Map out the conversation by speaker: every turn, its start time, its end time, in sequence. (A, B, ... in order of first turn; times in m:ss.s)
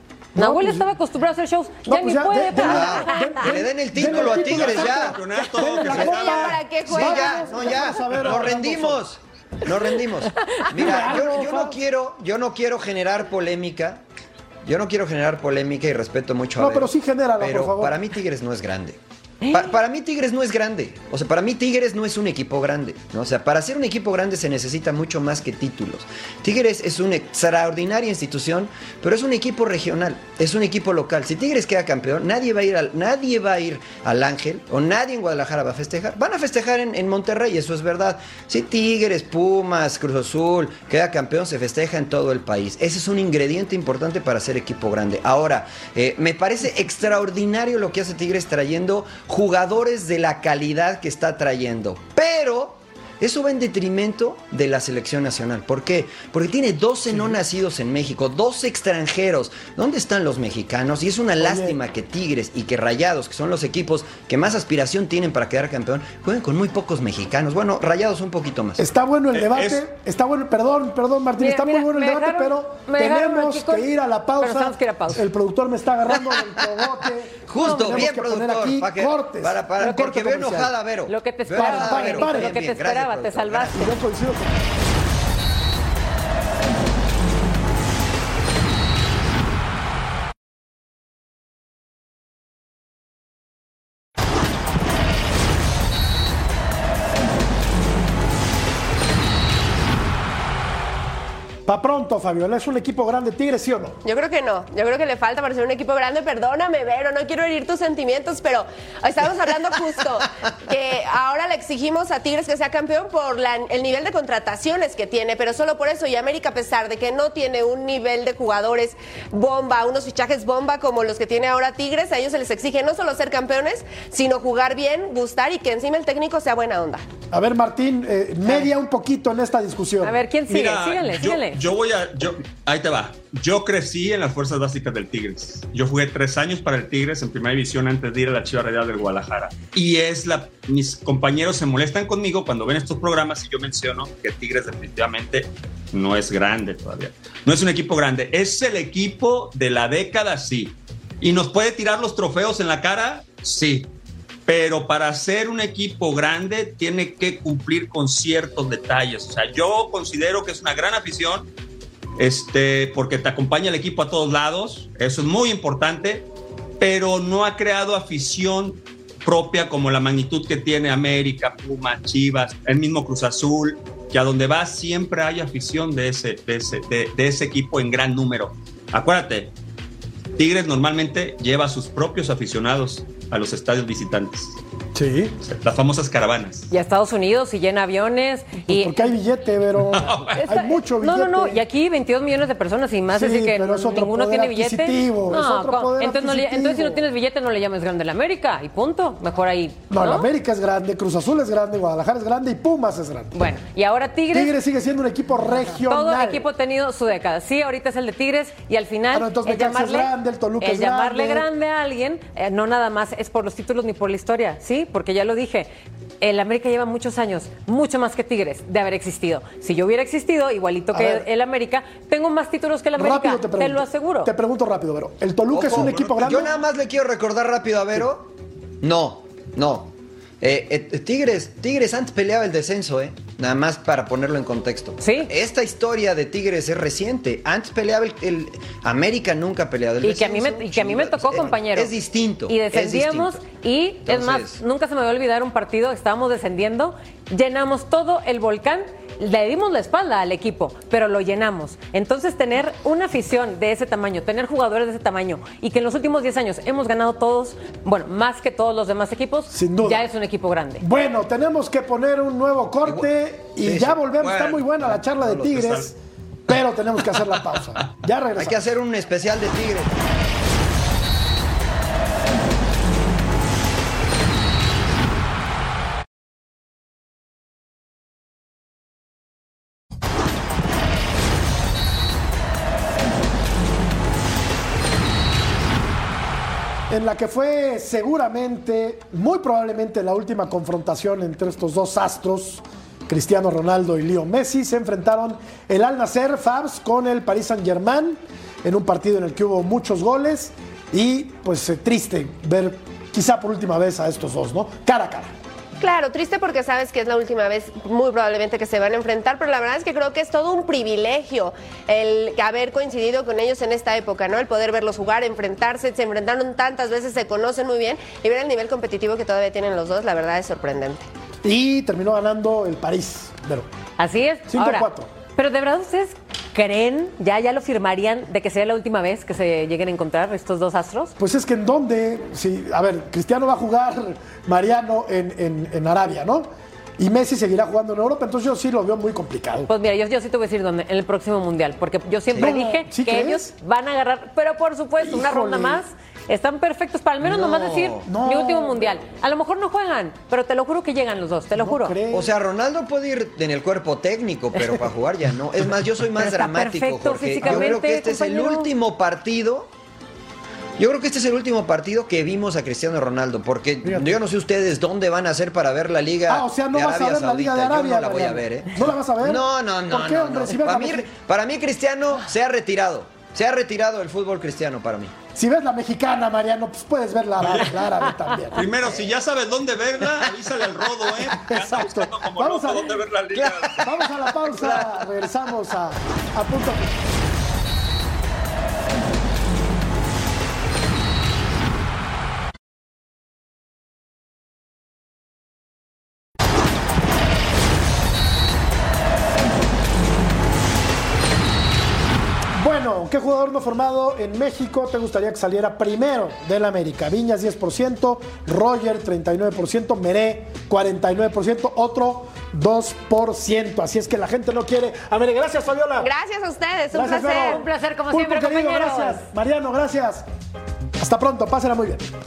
0:00.4-0:00.9 A
0:00.4-0:03.5 B
0:01.8-0:09.0 A
0:02.6-0:05.2 C
0:04.0-0:06.6 D
0:05.9-0:07.8 E
0:05.9-0:14.0 C
0:10.7-0:11.8 A
0:14.6-1:08.8 C
0:16.6-0:18.0 A
1:01.4-1:01.8 A
1:08.8-1:20.7 A
1:09.3-1:09.8 D
1:11.4-1:13.9 B
1:14.4-1:15.2 B
1:17.4-1:23.9 C
1:17.6-1:18.1 B
1:21.1-1:23.9 B
1:21.5-1:22.5 A
1:23.7-1:24.7 A
1:41.6-1:44.0 A
1:44.0-2:07.0 E
2:07.3-2:10.2 A
2:10.0-2:11.6 B
2:10.5-2:33.9 D
2:34.5-2:41.5 D
2:42.2-2:46.3 D
2:46.8-2:59.5 D
3:00.4-3:04.6 D
3:04.9-3:05.4 A
3:05.4-3:06.7 D
3:06.7-3:09.0 B
3:08.7-3:11.6 A
3:09.9-3:10.4 D
3:10.3-3:20.3 B
3:13.1-3:17.0 A
3:19.9-3:23.4 A
3:23.3-3:24.5 B
3:24.3-3:26.5 A
3:25.7-3:44.3 B
3:29.1-3:31.5 A
3:40.9-3:41.2 A
3:43.0-3:46.5 A
3:45.5-3:48.3 C
3:45.7-3:46.3 D
3:48.8-4:03.4 C
3:55.0-3:55.3 B
4:00.0-4:01.9 B
4:02.5-4:20.8 B
4:04.0-4:04.6 C
4:19.5-4:20.1 A
4:20.8-4:26.0 A
4:22.8-4:23.1 C
4:23.6-4:25.5 C
4:24.2-4:24.7 D
4:25.4-4:25.9 D
4:26.5-4:28.6 A
4:27.1-4:27.6 D
4:28.3-4:29.9 C
4:46.9-5:05.3 A
5:05.8-5:21.0 E
5:21.4-5:23.7 A
5:24.0-5:31.1 B
5:24.5-5:25.1 A
5:31.2-5:36.5 A
5:37.0-5:39.7 A
5:39.7-5:51.9 B
5:42.4-5:43.5 A
5:45.0-5:45.8 A
5:47.2-5:48.1 C
5:48.0-5:48.9 A
5:51.5-5:52.3 A
5:52.1-5:59.7 C
5:56.2-5:58.7 B
5:57.4-5:57.8 A
6:00.8-6:15.1 C
6:03.8-6:04.2 A
6:06.3-6:11.1 A
6:15.3-6:18.7 A
6:17.4-6:23.9 D
6:18.8-6:19.1 C
6:21.2-6:23.1 A
6:23.3-6:25.1 C
6:23.8-6:27.0 A
6:42.5-6:56.1 A
6:56.0-6:57.6 E
6:56.9-7:00.2 A
6:57.2-6:59.2 B
7:01.0-7:02.1 A